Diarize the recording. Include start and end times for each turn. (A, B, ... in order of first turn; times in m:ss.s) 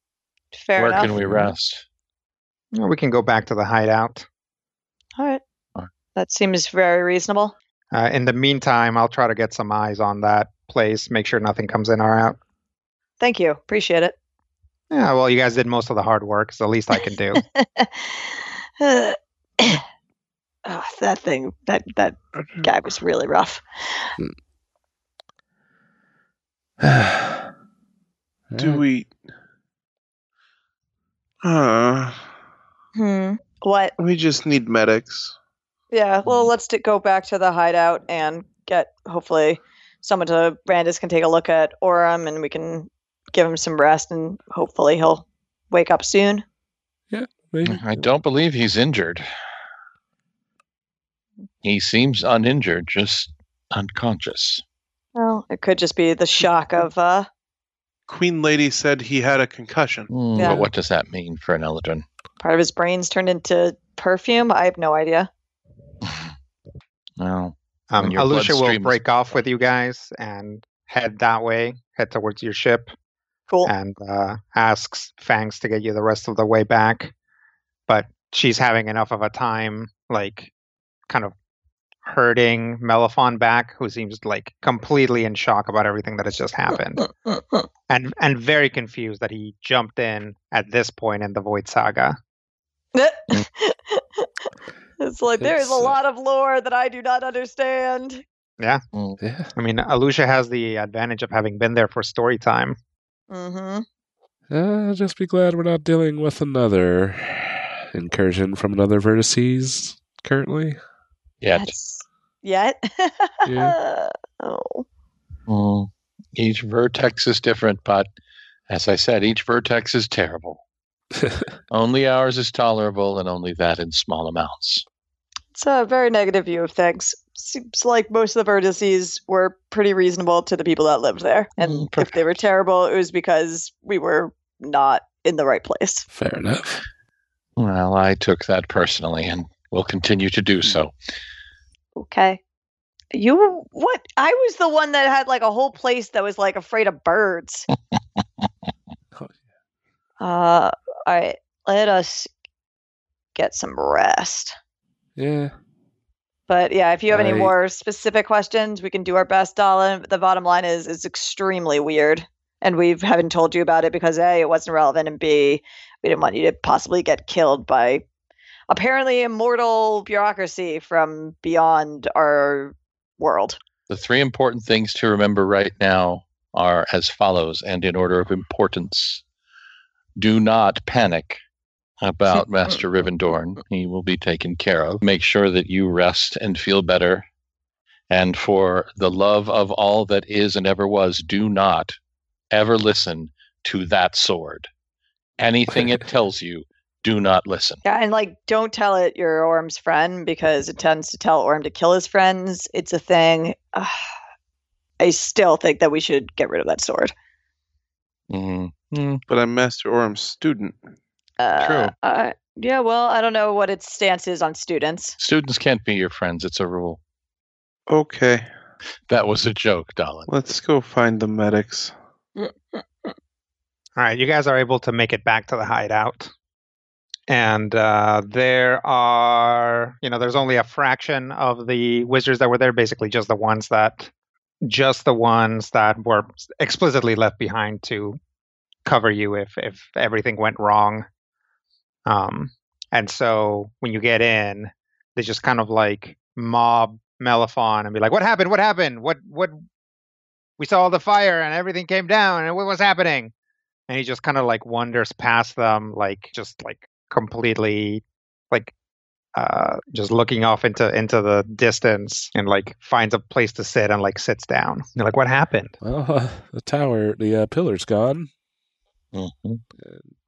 0:00.5-0:01.2 A
0:00.8-0:01.8 B
0:02.7-0:04.2 C
0:05.2-0:05.4 A
0:06.1-0:07.5 A
0:07.9-0:12.4 C
0:13.2-0:14.2 A
0:14.9-0:17.4 C
0:17.4-0:19.8 A
0:20.6-0:24.1 A
0:22.4-0:22.7 D
0:26.8-0:27.4 E
0:28.5-0:28.8 E
0:28.6-0:29.1 D
0:31.4-0:32.3 D
0:32.9-0:33.9 A
0:34.0-0:35.3 D
0:35.9-0:46.4 A
0:47.1-0:48.0 E
0:47.6-0:49.3 B
0:51.6-0:54.6 B
0:55.1-0:57.3 A
0:58.1-1:00.1 D
1:00.1-1:02.0 B
1:00.4-1:00.7 A
1:02.4-1:05.3 A
1:07.2-1:09.4 B
1:07.9-1:12.9 C
1:13.6-1:17.1 C
1:17.9-1:20.5 C
1:22.0-1:27.1 C
1:27.2-1:27.6 A
1:27.9-1:32.2 C
1:32.9-1:34.3 A
1:35.0-1:38.2 A
1:35.4-1:35.9 E
1:38.9-1:39.2 B
1:39.2-1:39.5 E
1:39.6-1:42.8 C
1:43.3-1:43.8 A
1:44.5-1:50.8 E
1:51.4-1:51.7 B
1:51.6-1:54.8 A
1:53.4-1:53.7 E
1:55.5-1:58.1 B
1:58.7-2:00.6 B
2:01.7-2:04.8 B
2:05.5-2:16.0 A
2:11.6-2:12.2 B
2:16.1-2:16.8 E
2:17.6-2:20.9 B
2:22.0-2:22.4 A
2:23.1-2:27.7 A
2:30.2-2:32.3 A
2:33.4-2:34.5 A
2:35.2-2:35.5 E
2:36.5-2:48.0 A
2:37.1-2:37.5 E
2:48.7-2:53.6 A
2:53.9-2:59.2 B
3:00.2-3:01.4 B
3:02.0-3:07.2 B
3:08.1-3:12.0 B
3:12.5-3:14.7 B
3:15.4-3:17.8 B
3:17.8-3:24.0 A
3:25.0-3:27.1 A
3:28.3-3:29.2 B
3:29.3-3:30.8 D
3:31.4-3:35.2 A
3:31.6-3:31.9 B
3:35.2-3:37.0 B
3:37.9-3:38.5 D
3:39.1-3:40.3 B
3:40.3-3:41.9 D
3:42.4-3:42.8 A
3:44.0-3:46.3 C
3:47.3-3:54.1 C
3:54.6-3:58.2 C
3:58.8-4:01.0 C
4:02.0-4:09.6 C
4:10.6-4:13.3 C
4:13.9-4:18.7 C
4:19.4-4:25.7 C
4:25.8-4:28.3 E
4:29.1-4:29.6 B